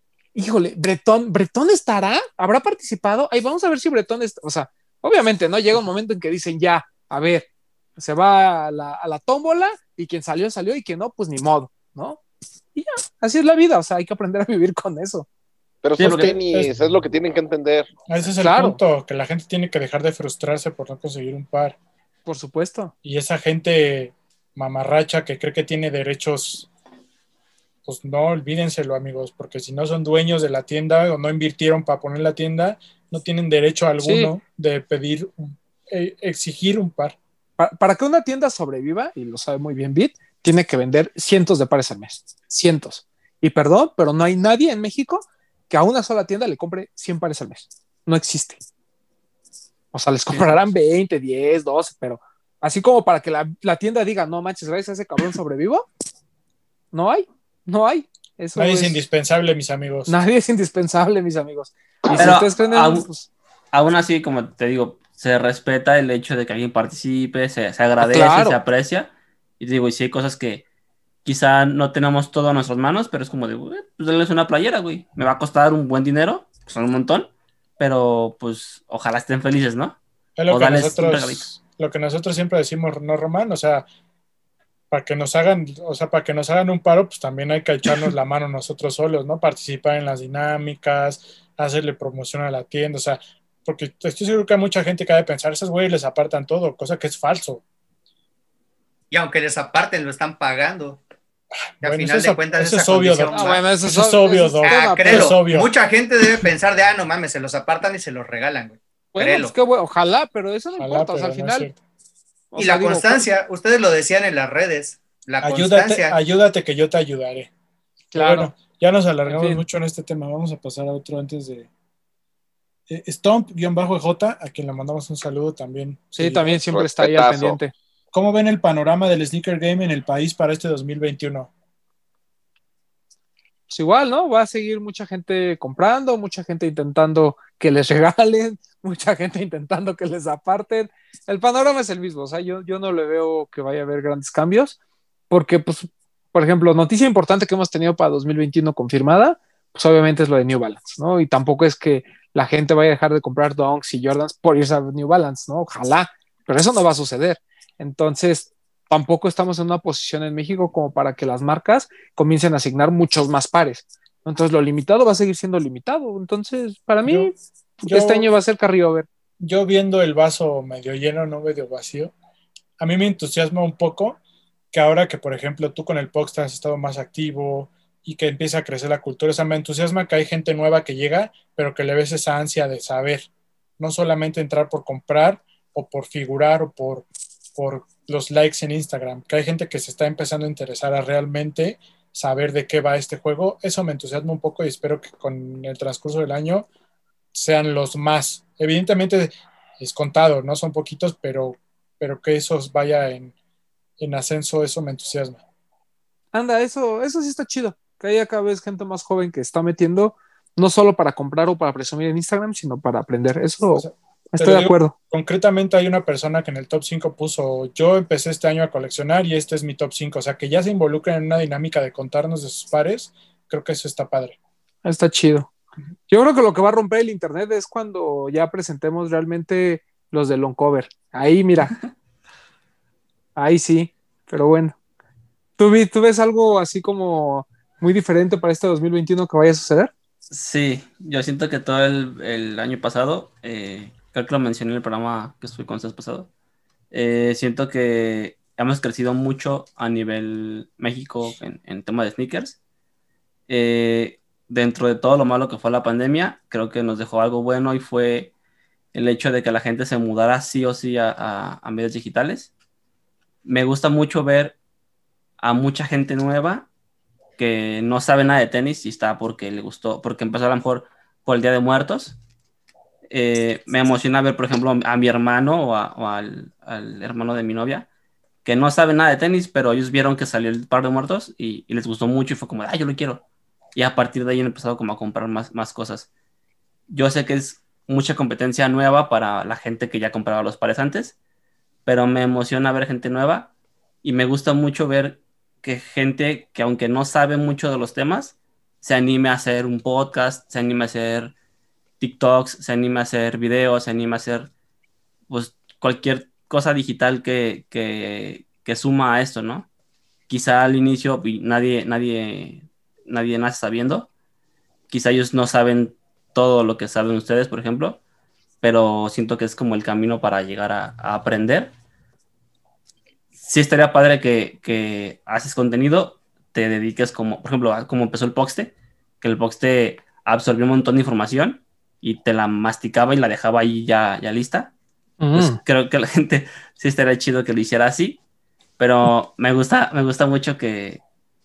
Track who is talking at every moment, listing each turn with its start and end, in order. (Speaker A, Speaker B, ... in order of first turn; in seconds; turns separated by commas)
Speaker A: 0.3-12.2, Speaker A: 12.7-15.3, Speaker B: 15.8-17.9, Speaker C: 16.0-16.7, Speaker A: 16.0-16.4, Speaker C: 18.1-21.8, Speaker A: 18.4-18.8, Speaker A: 22.2-22.9, Speaker C: 23.0-26.7, Speaker C: 27.8-37.2, Speaker A: 34.0-34.3, Speaker A: 37.6-48.6, Speaker A: 49.9-55.9, Speaker A: 56.9-59.0, Speaker C: 58.5-60.1, Speaker A: 60.1-63.3, Speaker D: 62.1-63.1, Speaker D: 63.7-70.6, Speaker A: 68.0-68.6, Speaker D: 71.2-80.0, Speaker C: 80.4-83.8, Speaker D: 80.5-81.5, Speaker C: 84.9-97.6, Speaker E: 99.1-101.0, Speaker C: 101.6-105.7, Speaker E: 101.8-103.8, Speaker A: 103.3-105.3, Speaker E: 104.6-109.5, Speaker A: 109.1-111.7, Speaker C: 110.8-111.8, Speaker A: 112.5-113.2, Speaker E: 112.6-116.2, Speaker C: 115.4-117.5, Speaker A: 118.1-118.5, Speaker C: 118.1-121.7, Speaker A: 119.3-119.6, Speaker C: 122.9-126.6, Speaker A: 126.2-127.7, Speaker B: 126.7-127.6, Speaker C: 128.1-131.5, Speaker A: 133.7-144.8, Speaker A: 145.3-169.1, Speaker C: 167.0-168.3, Speaker C: 169.4-172.1, Speaker C: 172.8-174.2, Speaker C: 174.7-196.7, Speaker C: 197.3-203.3, Speaker C: 204.0-205.4, Speaker A: 206.3-214.9, Speaker C: 213.8-224.4, Speaker A: 224.8-225.5, Speaker A: 226.1-231.8, Speaker A: 233.3-234.7, Speaker A: 235.6-239.9, Speaker D: 240.3-246.3, Speaker D: 246.9-252.6, Speaker D: 253.5-258.3, Speaker D: 258.9-262.5, Speaker D: 263.4-264.6, Speaker D: 265.4-266.7, Speaker D: 267.4-272.2, Speaker D: 273.1-277.9, Speaker D: 278.4-283.2, Speaker D: 283.7-286.1, Speaker D: 286.9-291.1, Speaker D: 291.9-293.5, Speaker D: 294.0-301.3, Speaker D: 302.0-304.5, Speaker D: 305.3-309.7, Speaker D: 310.3-314.1, Speaker D: 314.9-318.0, Speaker D: 318.6-321.7, Speaker D: 323.4-334.7, Speaker A: 335.2-335.6, Speaker D: 335.3-338.2, Speaker D: 338.8-341.0